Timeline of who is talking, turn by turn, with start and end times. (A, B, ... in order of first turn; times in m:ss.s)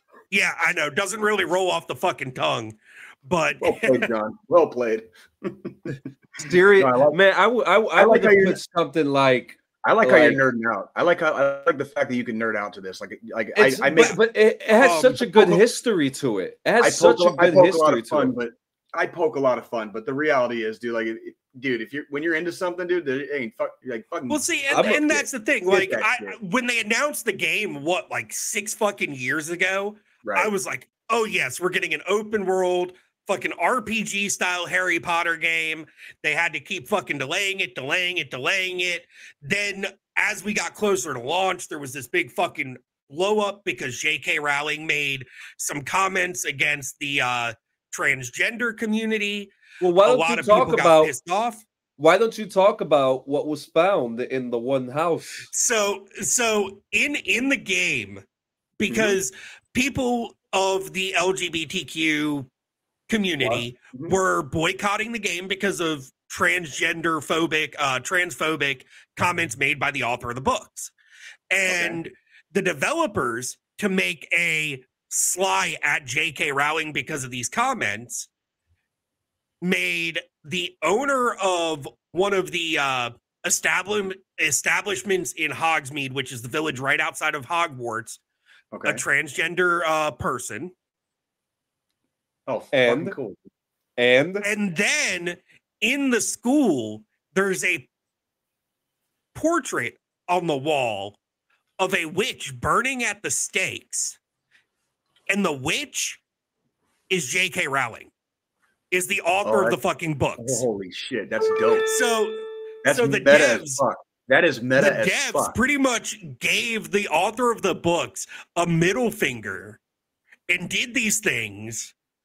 0:00.3-0:04.1 A
0:03.6-0:06.0 B
0:06.4-0:10.4 C
0:06.8-0:07.2 B
0:08.0-0:08.6 B
0:09.8-0:14.2 B
0:13.6-0:18.3 C
0:14.8-0:15.2 A
0:15.2-0:15.6 B
0:16.8-0:25.0 B
0:24.3-0:51.6 A
0:24.7-0:25.2 C
0:25.7-0:26.4 B
0:30.2-0:30.5 B
0:49.8-0:51.1 C
0:52.0-0:55.5 C
0:55.5-0:58.2 A
0:58.8-1:02.5 A
0:58.9-0:59.2 B
1:03.1-1:10.9 A
1:03.4-1:04.2 B
1:11.5-1:18.3 A
1:11.7-1:12.0 B
1:19.6-1:28.2 A
1:28.7-1:29.0 B
1:28.8-1:30.7 A
1:32.5-1:33.4 B
1:32.7-1:33.2 C
1:34.0-1:34.5 C
1:34.4-1:37.9 A
1:39.3-1:41.2 A
1:41.8-1:44.2 A
1:45.3-1:46.2 A
1:47.1-1:48.1 A
1:48.9-1:50.6 A
1:49.4-1:49.8 B
1:50.4-1:51.9 B
1:51.9-1:53.8 A
1:52.8-1:55.6 B
1:54.8-1:59.8 A
2:00.5-2:01.9 A